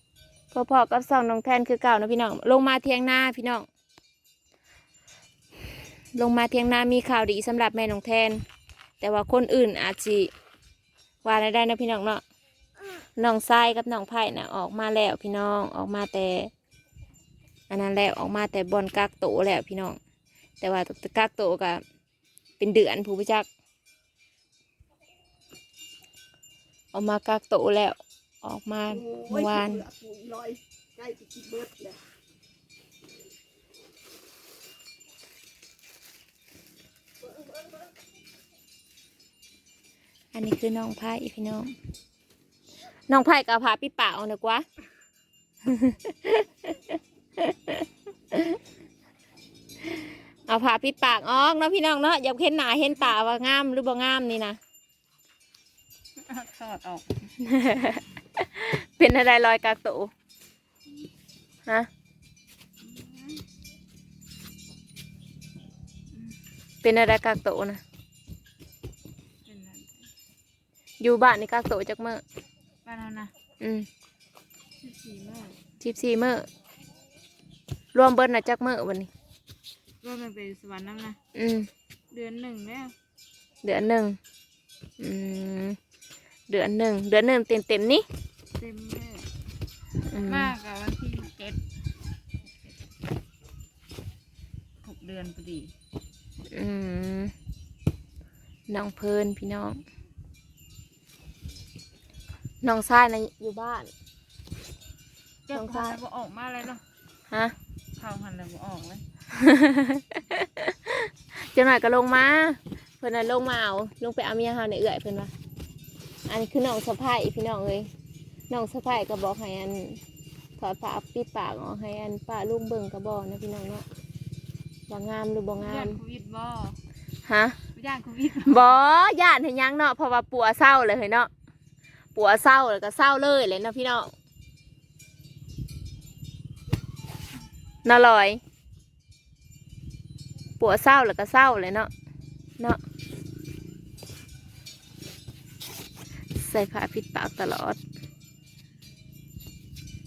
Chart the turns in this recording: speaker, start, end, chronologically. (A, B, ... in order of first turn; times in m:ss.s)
0:00.5-0:03.7 A
0:06.1-0:08.4 A
0:09.0-0:10.3 A
0:11.2-0:12.2 A
0:13.2-0:16.5 A
0:17.7-0:20.0 A
0:20.6-0:21.8 A
0:22.6-0:23.5 A
0:26.9-0:29.9 A
0:31.3-0:31.8 B
0:40.3-0:41.7 A
0:43.1-0:44.6 A
0:45.6-0:48.6 A
0:49.9-0:54.6 A
0:56.2-0:57.3 B
0:57.4-1:00.1 A
1:02.8-1:03.4 B
1:06.8-1:07.8 A
1:09.4-1:10.1 B
1:11.0-1:12.2 A
1:12.8-1:13.3 B
1:13.6-1:13.9 A
1:14.8-1:15.6 B
1:15.8-1:16.4 A
1:17.9-1:19.1 A
1:20.0-1:21.2 B
1:21.3-1:21.7 A
1:22.1-1:22.9 B
1:23.6-1:24.2 A
1:25.0-1:25.8 A
1:26.5-1:28.0 A
1:28.5-1:29.3 B
1:30.0-1:31.6 B
1:30.1-1:30.5 A
1:34.8-1:35.7 B
1:36.5-1:37.3 A
1:38.7-1:39.8 A
1:42.6-1:43.9 A
1:45.5-1:46.8 B
1:45.5-1:46.0 A
1:47.3-1:47.5 A
1:48.0-1:49.1 B
1:49.3-1:55.3 A
1:56.2-1:57.9 A
1:58.5-2:00.0 A
2:00.6-2:03.8 A
2:04.9-2:06.0 A
2:05.6-2:06.8 B
2:07.2-2:07.6 A
2:07.7-2:08.8 B
2:08.4-2:11.3 A
2:12.1-2:14.1 A
2:17.8-2:18.4 A
2:20.6-2:21.9 A
2:26.3-2:27.8 A